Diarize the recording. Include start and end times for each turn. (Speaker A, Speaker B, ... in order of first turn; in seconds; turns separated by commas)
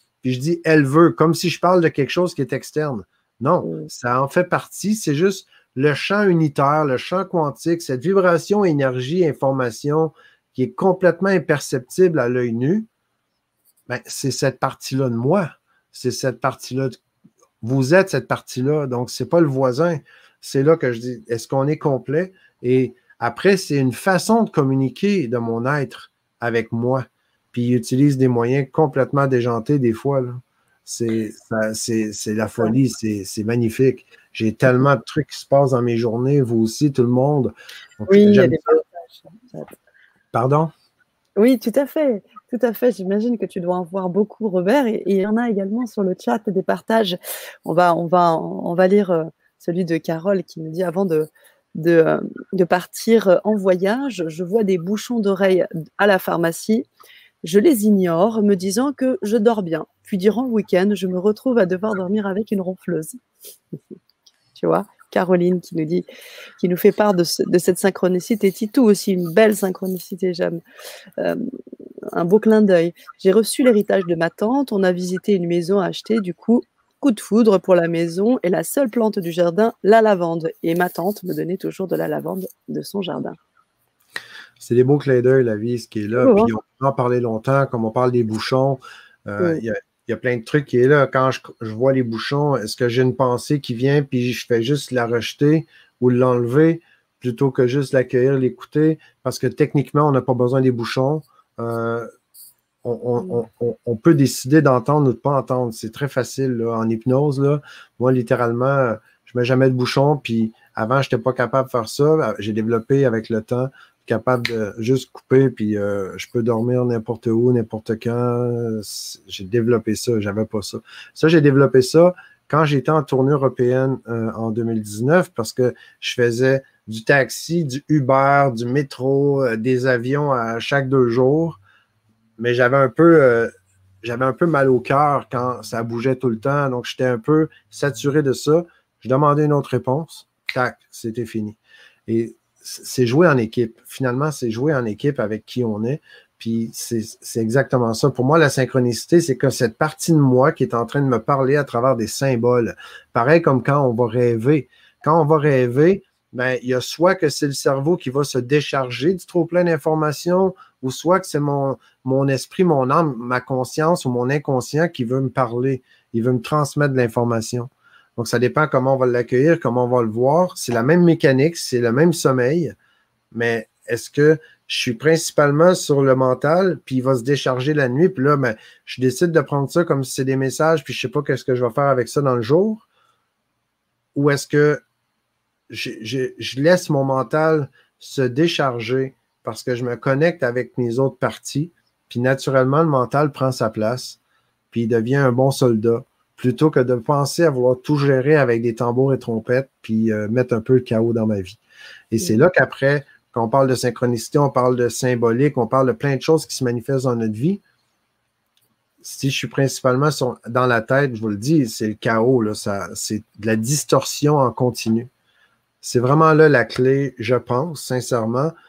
Speaker A: 0.2-12.9, Speaker B: 3.6-3.9, Speaker A: 13.9-17.0, Speaker A: 17.6-38.6, Speaker B: 38.1-39.7, Speaker A: 40.3-40.7, Speaker B: 41.4-56.9, Speaker B: 57.4-63.2, Speaker B: 64.5-66.0, Speaker B: 66.6-70.6, Speaker B: 71.2-71.4, Speaker B: 72.1-83.4, Speaker A: 84.6-102.1, Speaker B: 86.2-86.5, Speaker A: 102.8-131.6, Speaker A: 132.4-133.5, Speaker A: 134.0-172.7, Speaker A: 173.3-182.8, Speaker A: 184.1-184.8, Speaker A: 185.7-194.2, Speaker A: 194.7-201.6, Speaker A: 202.1-207.6, Speaker A: 209.0-215.1, Speaker A: 215.8-218.5